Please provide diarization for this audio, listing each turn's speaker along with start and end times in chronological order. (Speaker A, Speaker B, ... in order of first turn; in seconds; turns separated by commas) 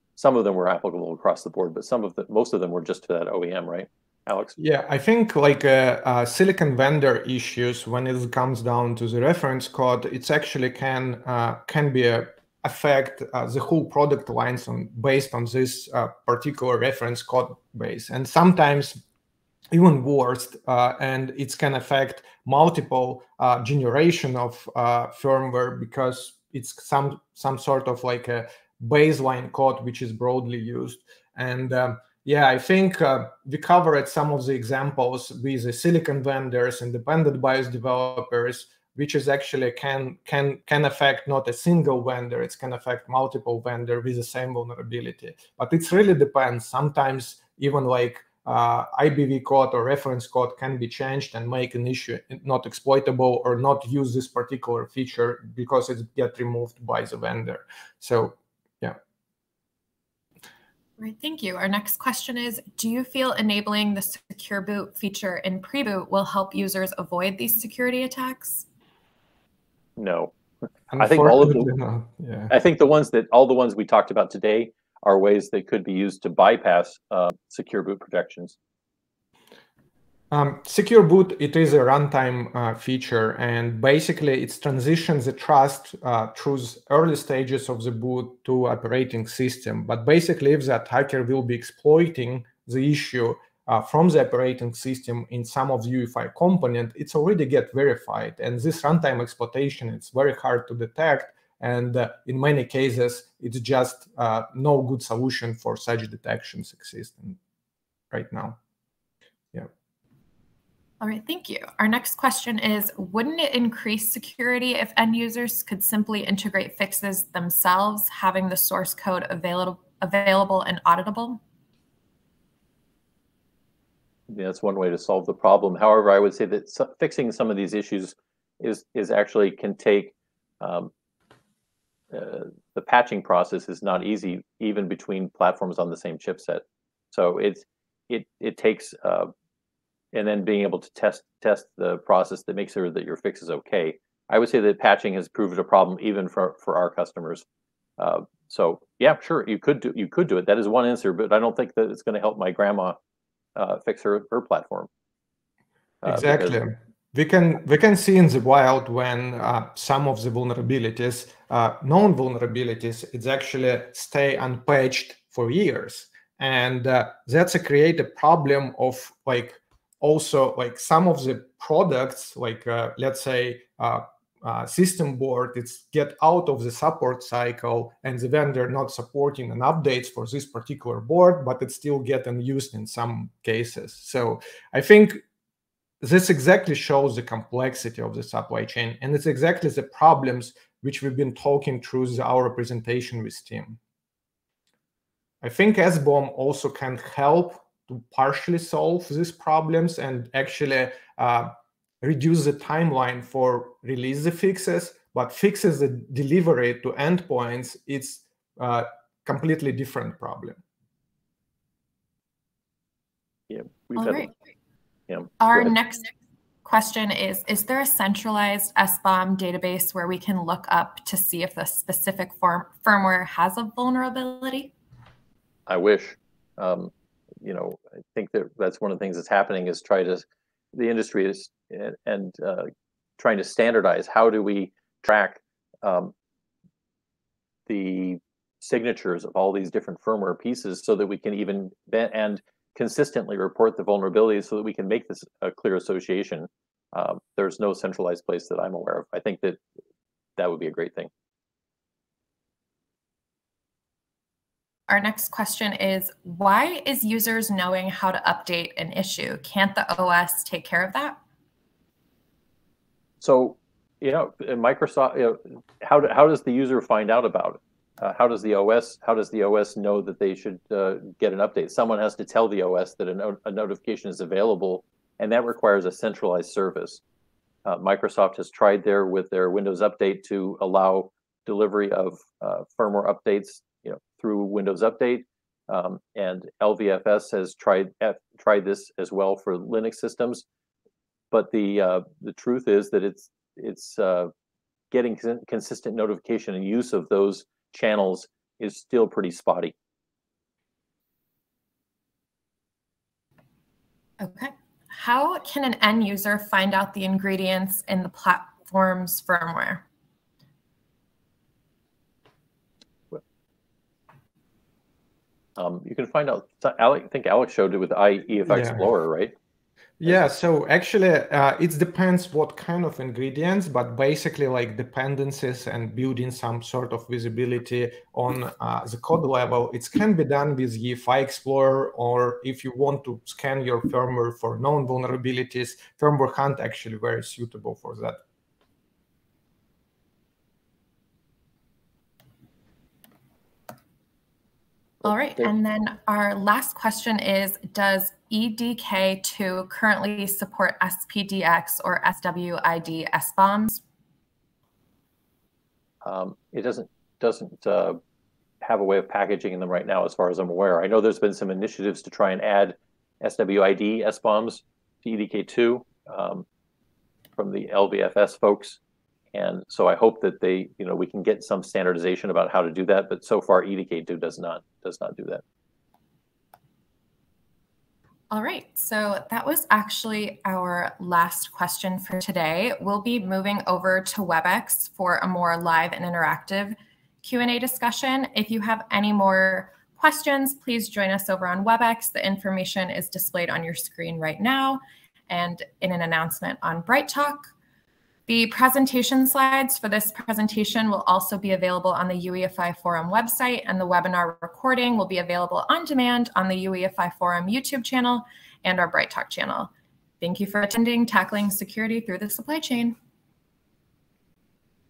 Speaker A: 0.2-4.6, Speaker B: 4.6-19.0, Speaker B: 19.7-59.0, Speaker C: 61.0-68.7, Speaker A: 70.0-70.3, Speaker B: 70.9-72.5, Speaker A: 71.0-71.7, Speaker A: 72.5-78.6, Speaker B: 80.3-107.4, Speaker B: 108.1-108.6, Speaker C: 111.0-121.4, Speaker A: 124.3-130.9, Speaker A: 132.1-139.3, Speaker A: 140.1-147.4, Speaker A: 148.0-153.0, Speaker A: 153.6-154.9, Speaker A: 156.0-156.6, Speaker B: 156.1-185.2, Speaker B: 186.0-193.8, Speaker B: 195.4-210.6, Speaker A: 213.5-214.3, Speaker C: 214.0-214.3, Speaker A: 215.1-215.8, Speaker C: 215.4-216.1, Speaker C: 216.6-224.7, Speaker A: 225.7-226.9, Speaker A: 227.4-236.1, Speaker A: 237.7-249.6, Speaker A: 250.4-251.1, Speaker C: 254.9-261.2, Speaker A: 263.2-277.0, Speaker A: 277.6-290.5, Speaker A: 291.3-294.3, Speaker A: 294.9-299.7, Speaker C: 304.2-309.9, Speaker A: 315.6-319.3, Speaker B: 318.5-318.8, Speaker B: 320.0-338.2, Speaker A: 320.1-320.3, Speaker C: 345.0-353.8, Speaker A: 356.0-358.0, Speaker A: 358.6-366.4, Speaker A: 367.4-368.8, Speaker A: 369.3-375.4, Speaker C: 378.3-397.5, Speaker C: 398.3-413.0